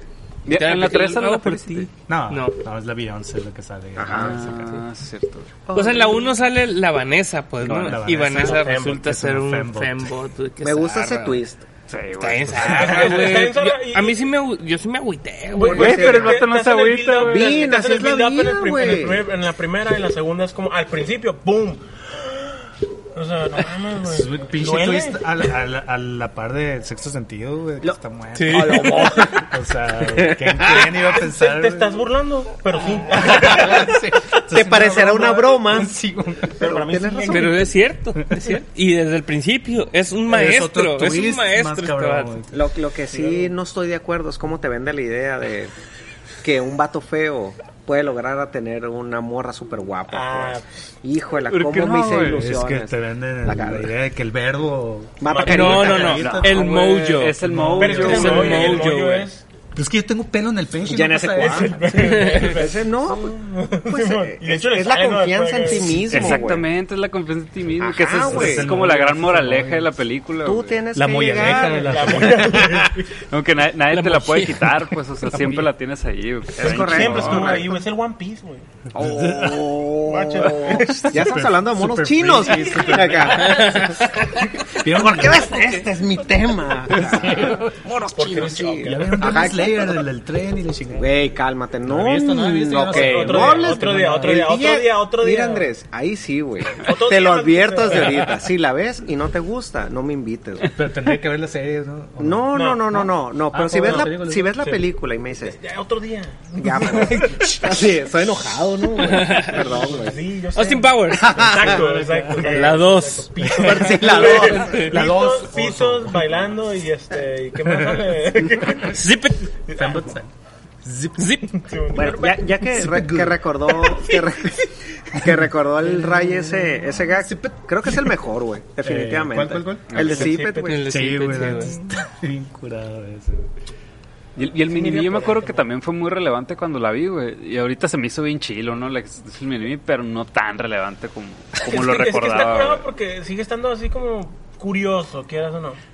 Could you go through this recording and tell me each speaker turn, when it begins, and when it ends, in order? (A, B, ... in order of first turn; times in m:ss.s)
0:00.4-0:01.9 A
0:00.4-0:02.6 B
0:02.1-0:04.8 C
0:04.0-0:04.5 D
0:04.1-0:05.5 A
0:05.6-0:06.3 D
0:05.7-0:11.4 B
0:07.6-0:10.1 C
0:10.6-0:11.7 D
0:11.9-0:13.4 A
0:12.2-0:16.2 B
0:12.7-0:14.2 E
0:15.5-0:25.2 E
0:15.7-0:16.4 D
0:15.7-0:17.6 A
0:17.2-0:19.2 D
0:24.0-0:32.0 C
0:27.8-0:29.5 D
0:28.3-0:29.2 B
0:28.7-0:29.4 E
0:30.1-0:30.9 D
0:31.2-0:34.0 E
0:33.1-0:36.7 C
0:33.5-0:33.9 D
0:34.5-0:36.0 D
0:36.6-0:37.7 E
0:36.6-0:37.7 D
0:37.3-0:42.4 B
0:40.3-0:42.5 C
0:42.5-0:45.7 D
0:43.1-0:43.5 E
0:46.4-0:53.9 D
0:50.1-0:50.7 E
0:51.5-0:52.5 A
0:52.2-0:56.7 C
0:55.2-0:56.2 D
0:55.2-0:56.3 E
0:55.4-0:59.3 B
0:56.1-0:58.8 A
0:57.4-0:58.6 C
0:57.8-0:59.4 E
0:59.7-1:02.2 C
1:00.8-1:06.7 D
1:01.4-1:06.4 E
1:06.1-1:10.8 A
1:07.8-1:08.8 D
1:08.2-1:09.9 C
1:10.4-1:12.5 D
1:10.9-1:12.9 C
1:11.4-1:13.0 E
1:13.3-1:17.6 A
1:13.9-1:14.8 B
1:16.6-1:17.7 D
1:16.6-1:18.7 E
1:16.6-1:17.6 C
1:18.9-1:30.0 D
1:18.9-1:19.8 C
1:20.1-1:21.1 E
1:20.7-1:23.8 C
1:23.5-1:23.9 B
1:24.8-1:25.8 C
1:26.9-1:27.9 C
1:28.1-1:29.5 E
1:28.8-1:31.1 C
1:30.9-1:40.7 D
1:31.8-1:34.4 C
1:32.8-1:35.7 E
1:36.8-1:38.5 E
1:40.7-1:44.5 C
1:42.2-1:45.6 D
1:42.5-1:43.0 E
1:43.8-1:44.8 E
1:45.4-1:47.5 E
1:46.6-1:50.2 D
1:46.8-1:47.6 C
1:49.0-1:49.6 B
1:49.2-1:59.1 E
1:50.5-1:51.5 B
1:51.1-1:51.8 D
1:51.3-1:52.8 C
1:52.4-1:55.0 B
1:53.4-1:56.3 C
1:53.6-1:54.9 D
1:58.9-1:59.5 B
1:59.6-2:00.1 E
1:59.7-2:00.3 C
2:00.8-2:01.4 C
2:01.2-2:01.6 B
2:01.5-2:02.5 E
2:01.9-2:10.9 D
2:02.6-2:03.5 C
2:05.2-2:05.4 C
2:07.2-2:08.1 C
2:08.8-2:10.1 C
2:09.9-2:10.2 A
2:10.0-2:11.9 B
2:10.0-2:10.8 E
2:10.8-2:13.5 C
2:14.4-2:22.8 A
2:14.7-2:15.6 E
2:21.6-2:25.8 E